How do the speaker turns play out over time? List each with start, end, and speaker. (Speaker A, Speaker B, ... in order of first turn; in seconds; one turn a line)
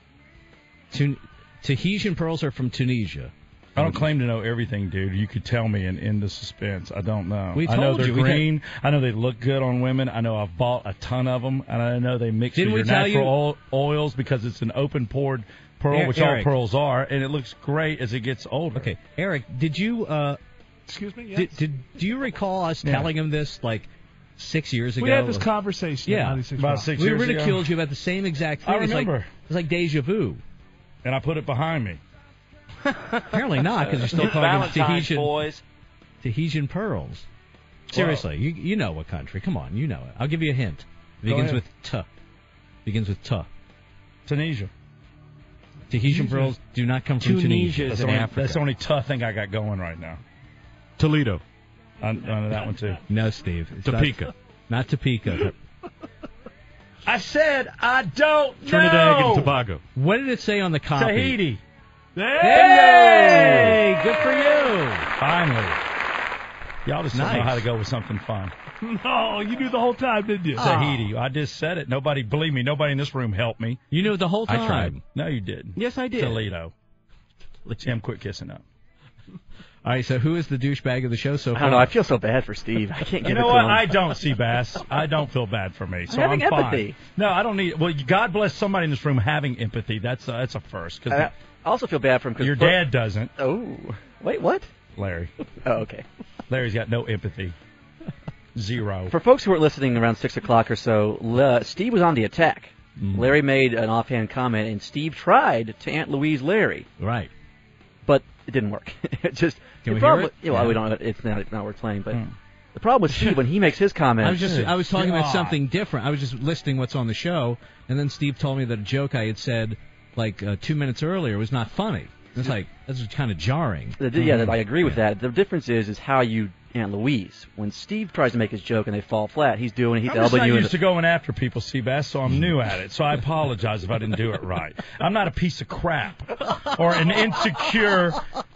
Speaker A: 0.9-4.0
Speaker B: 3.8-18.9
Speaker A: 7.5-8.5
Speaker A: 12.5-13.4
Speaker A: 15.9-16.5
Speaker A: 18.8-20.4
Speaker C: 20.9-21.6
Speaker A: 21.3-25.5
Speaker B: 22.8-23.1
Speaker C: 25.0-26.9
Speaker A: 26.1-26.4
Speaker B: 26.6-27.7
Speaker A: 26.9-30.4
Speaker B: 28.6-29.3
Speaker B: 31.0-32.0
Speaker A: 33.3-35.4
Speaker D: 33.9-35.6
Speaker A: 36.2-37.3
Speaker A: 37.9-42.1
Speaker B: 37.9-38.3
Speaker B: 41.3-41.6
Speaker A: 42.9-43.5
Speaker B: 44.3-44.7
Speaker A: 45.9-48.2
Speaker D: 46.1-46.5
Speaker D: 47.2-48.6
Speaker B: 47.8-50.2
Speaker D: 51.0-51.4
Speaker B: 52.0-53.0
Speaker A: 53.1-55.6
Speaker D: 53.8-54.3
Speaker B: 57.1-59.5
Speaker D: 58.6-59.8
Speaker A: 60.0-61.4
Speaker B: 60.9-61.6
Speaker C: 62.2-64.5
Speaker A: 62.4-65.1
Speaker B: 62.5-63.8
Speaker B: 65.2-65.8
Speaker B: 66.8-68.5
Speaker A: 67.1-67.7
Speaker C: 68.8-70.8
Speaker A: 70.6-71.1
Speaker B: 70.6-73.8
Speaker A: 73.9-75.0
Speaker D: 74.5-75.0
Speaker B: 75.1-76.7
Speaker D: 75.8-76.5
Speaker B: 77.8-78.6
Speaker A: 79.8-81.9
Speaker E: 81.5-84.2
Speaker B: 83.2-91.3
Speaker E: 86.1-87.0
Speaker E: 91.1-94.7
Speaker B: 92.4-93.3
Speaker B: 95.0-95.3
Speaker E: 95.6-96.0
Speaker B: 96.5-97.5
Speaker B: 98.6-99.1
Speaker E: 99.1-106.9
Speaker A: 103.0-103.4
Speaker A: 107.0-107.3
Speaker E: 108.1-112.2
Speaker A: 109.8-110.8
Speaker E: 112.7-114.4
Speaker A: 114.2-124.0
Speaker B: 114.4-115.6
Speaker E: 124.0-130.8
Speaker B: 124.2-124.5
Speaker B: 130.1-138.2